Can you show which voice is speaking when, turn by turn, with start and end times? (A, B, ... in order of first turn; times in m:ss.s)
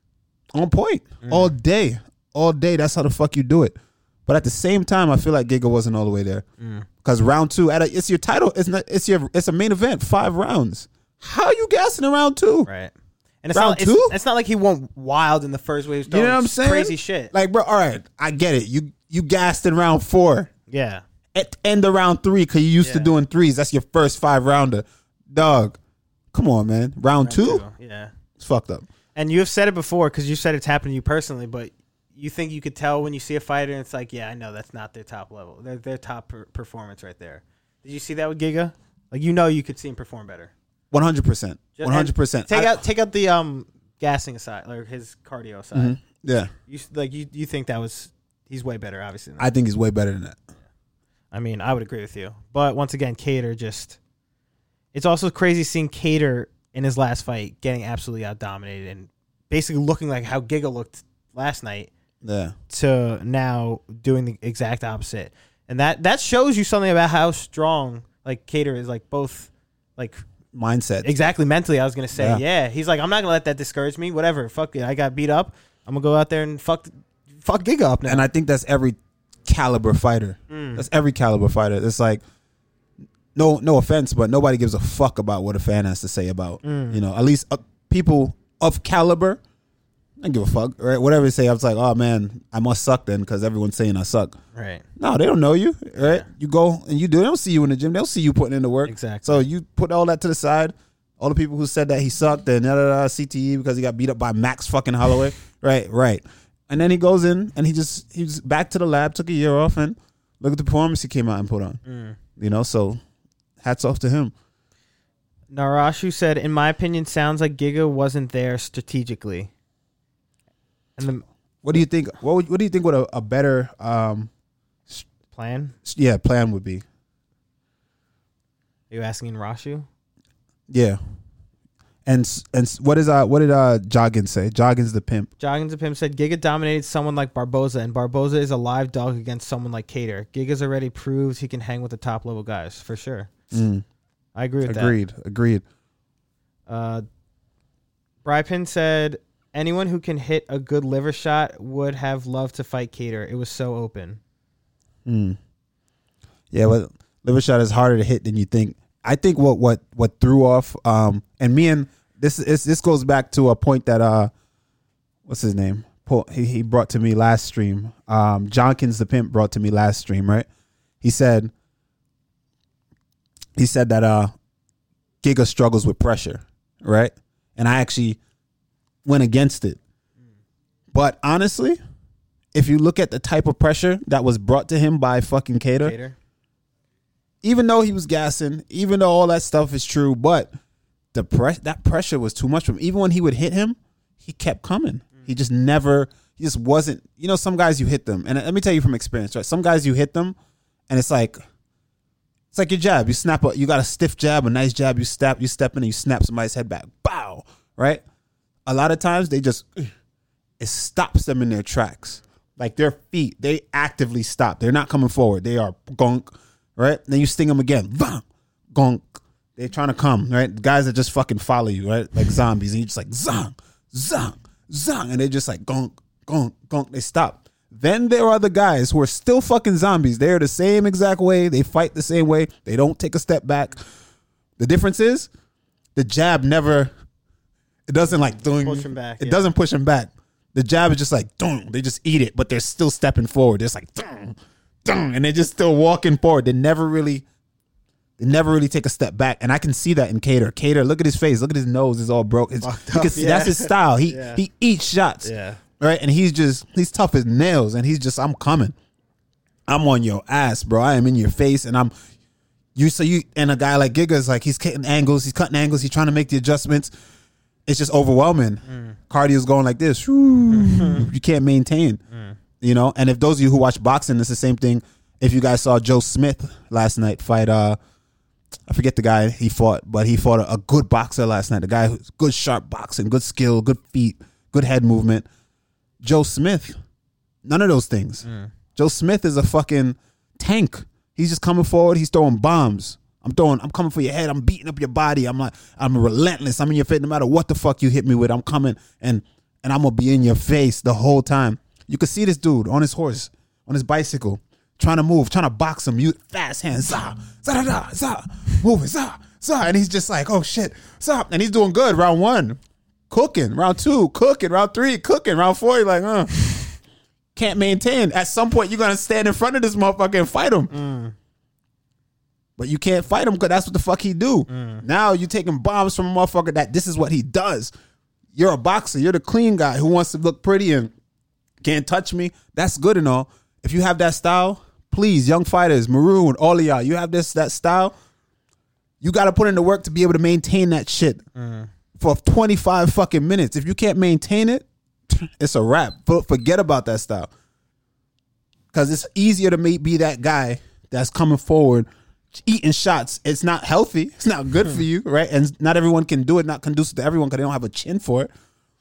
0:00.5-0:06.4 A
0:01.2-0:01.5 B
0:06.6-0:06.9 B
0:07.0-0:12.7 A
0:12.6-0:17.3 B
0:13.5-0:14.1 A
0:16.1-0:20.5 A
0:20.7-0:21.0 B
0:21.3-0:25.8 A
0:22.8-0:23.1 B
0:26.3-0:27.6 A
0:27.2-0:28.1 B
0:28.4-0:28.9 A
0:29.1-0:40.5 B
0:40.9-0:42.8 A
0:41.8-0:46.0 B
0:45.7-0:46.5 A
0:46.7-0:49.5 B
0:49.4-0:50.4 A
0:51.3-0:54.0 B
0:54.9-1:01.9 B
1:02.2-1:02.5 A
1:02.7-1:10.2 B
1:10.5-1:11.1 A
1:11.0-1:18.2 B
1:12.1-1:12.4 A
1:18.0-1:22.2 A
1:20.5-1:20.8 B
1:23.3-1:29.4 A
1:26.6-1:27.0 B
1:30.2-1:34.4 A
1:34.5-1:34.8 B
1:35.0-1:51.8 A
1:36.0-1:36.3 B
1:38.8-1:39.4 B
1:51.8-1:52.2 B
1:52.4-1:53.0 A
1:53.6-1:54.3 A
1:55.5-1:59.5 B
2:01.0-2:01.2 B
2:01.6-2:04.3 A
2:05.3-2:05.7 B
2:05.8-2:06.8 A
2:08.9-2:09.9 B
2:10.7-2:11.0 A
2:12.0-2:15.3 A
2:15.4-2:23.3 B
2:23.5-2:23.8 A
2:24.3-2:25.0 B
2:24.6-2:25.6 A
2:26.7-2:27.0 B
2:28.2-2:34.2 B
2:35.0-2:35.4 A
2:36.5-2:44.3 A
2:45.2-2:50.5 A
2:51.0-2:51.5 A
2:53.6-2:54.3 A
2:55.2-2:58.2 A
2:59.0-2:59.8 A
3:00.9-3:01.8 A
3:02.5-3:05.9 A
3:05.8-3:06.2 B
3:07.4-3:10.5 A
3:11.1-3:20.4 A
3:20.9-3:21.4 A
3:22.5-3:28.0 A
3:28.7-3:29.9 A
3:30.6-3:53.8 A
3:54.6-3:55.3 A
3:55.9-3:56.9 A
3:57.9-4:07.2 A
3:58.1-3:59.5 B
4:08.2-4:18.7 A
4:12.6-4:14.4 B
4:15.2-4:15.6 B
4:19.7-4:21.9 A
4:22.7-4:26.9 A
4:27.6-4:32.0 A
4:28.6-4:29.0 B
4:30.5-4:31.1 B
4:32.1-4:32.4 B
4:32.6-4:37.8 A
4:38.7-4:45.3 A
4:46.0-4:46.7 A
4:47.4-4:48.2 A
4:48.2-4:48.5 B
4:48.8-5:12.6 A
5:13.1-5:16.8 A
5:17.3-5:20.7 A
5:20.7-5:21.1 B
5:22.6-5:27.7 A
5:24.5-5:24.8 B
5:28.3-5:30.9 A
5:31.6-5:37.9 A
5:39.0-5:41.2 A
5:41.3-5:41.7 B
5:42.0-5:47.3 A
5:48.7-5:58.3 A